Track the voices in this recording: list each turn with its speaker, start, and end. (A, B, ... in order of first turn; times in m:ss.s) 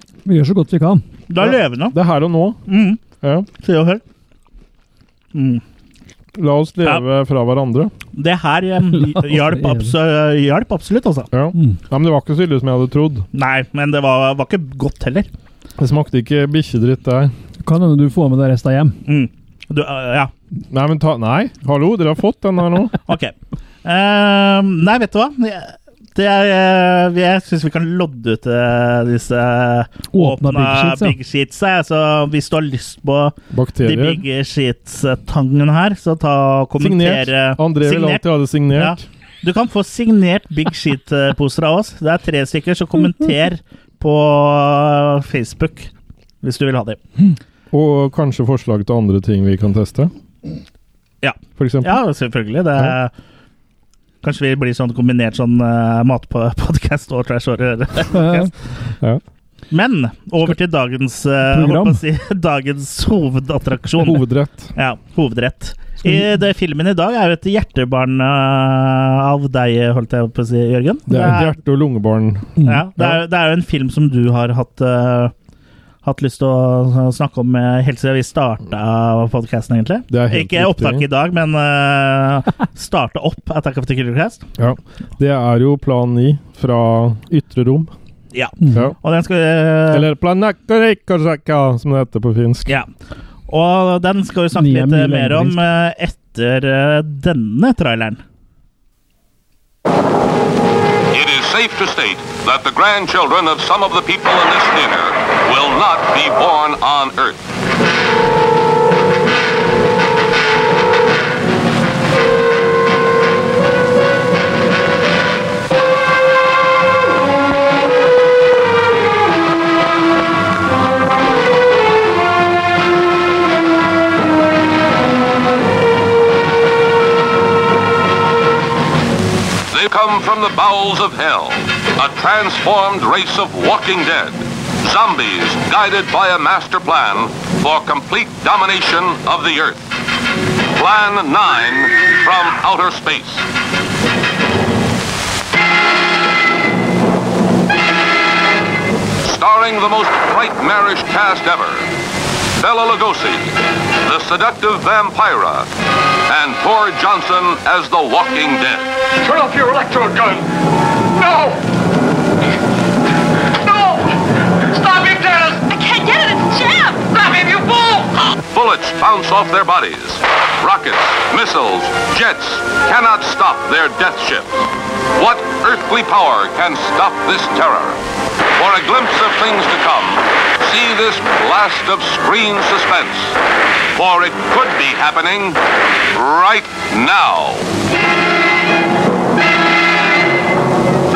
0:00.2-0:01.0 A
0:01.3-0:02.0 B
0:01.4-0:02.6 C
0:02.7-0:03.0 B
0:03.2-0:03.5 C
0:03.6-0:04.0 B
0:05.3-0:05.6 B
0:06.3-0:07.9 C
0:08.1-0:11.3 B
0:08.9-0:09.9 A
0:11.3-0:13.2 C
0:11.5-0:11.8 A
0:13.3-0:15.3 B
0:15.8-0:17.3 C
0:17.6-0:19.0 A
0:19.0-0:20.3 B
0:20.7-0:22.9 C
0:23.0-0:45.9 B
0:30.1-0:31.2 A
0:33.5-0:34.2 C
0:36.8-0:39.0 C
0:46.4-0:47.0 B
0:47.7-0:50.1 C
0:51.2-0:53.1 B
0:51.6-0:52.0 C
0:54.2-0:58.5 B
0:58.1-0:58.5 A
0:59.7-1:04.2 B
1:01.5-1:02.0 A
1:04.0-1:04.7 C
1:04.7-1:11.5 B
1:11.1-1:13.2 C
1:12.6-1:12.8 A
1:12.6-1:15.3 B
1:16.0-1:24.4 B
1:20.1-1:21.0 C
1:24.6-1:27.9 C
1:28.3-1:30.1 B
1:28.6-1:28.9 A
1:29.9-1:32.8 C
1:33.5-1:38.2 B
1:34.5-1:35.6 A
1:41.1-1:47.5 D
2:09.7-2:19.9 D
2:20.7-2:23.5 D
2:29.2-2:31.9 D
2:32.6-2:35.7 D
2:36.2-2:38.9 D
2:39.2-2:40.4 E
2:41.1-2:41.6 E
2:43.6-2:48.3 E
2:48.4-2:58.0 D
2:58.6-3:03.4 D
3:03.9-3:05.6 D
3:06.1-3:07.7 D